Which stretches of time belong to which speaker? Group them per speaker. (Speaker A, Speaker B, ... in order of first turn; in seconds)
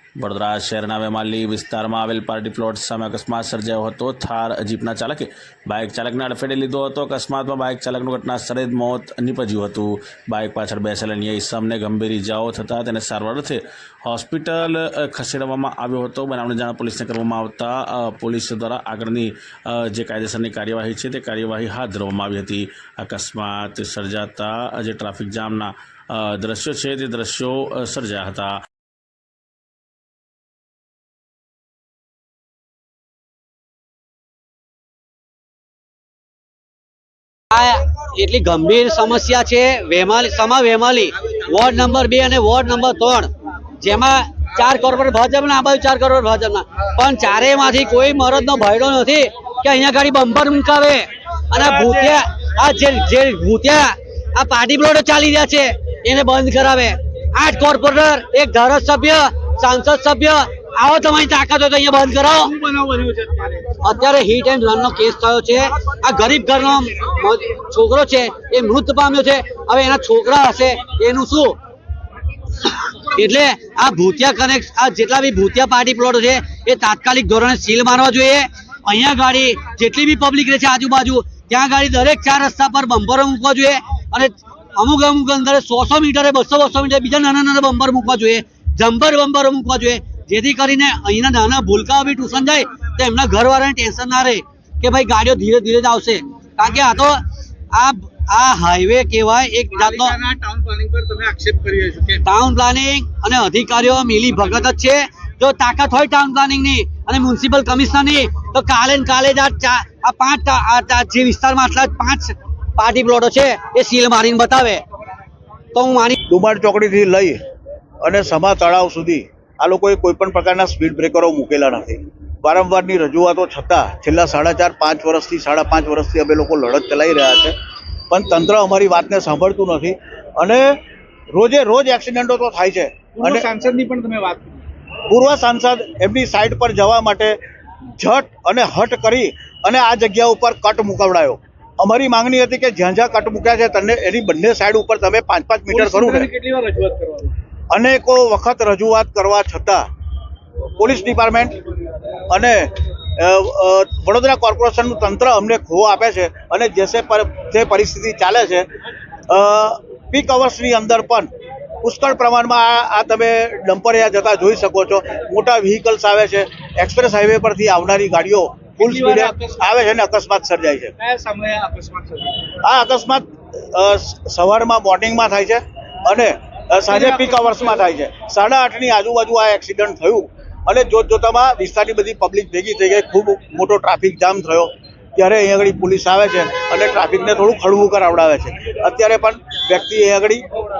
Speaker A: 0.2-28.6
Speaker B: 37.5-62.5, 63.8-71.6, 72.6-97.2, 97.7-100.2, 102.2-114.8, 115.7-116.2
Speaker C: 62.5-63.7, 99.8-102.2, 133.2-134.6, 145.7-147.3, 168.8-169.5, 171.0-172.5, 176.9-177.8
Speaker D: 116.2-117.4, 118.0-127.5, 128.1-130.8, 131.3-133.5, 135.1-137.4, 138.0-146.3, 147.7-149.8, 150.8-151.6, 152.3-158.7, 159.3-161.3, 161.8-170.9, 172.6-190.4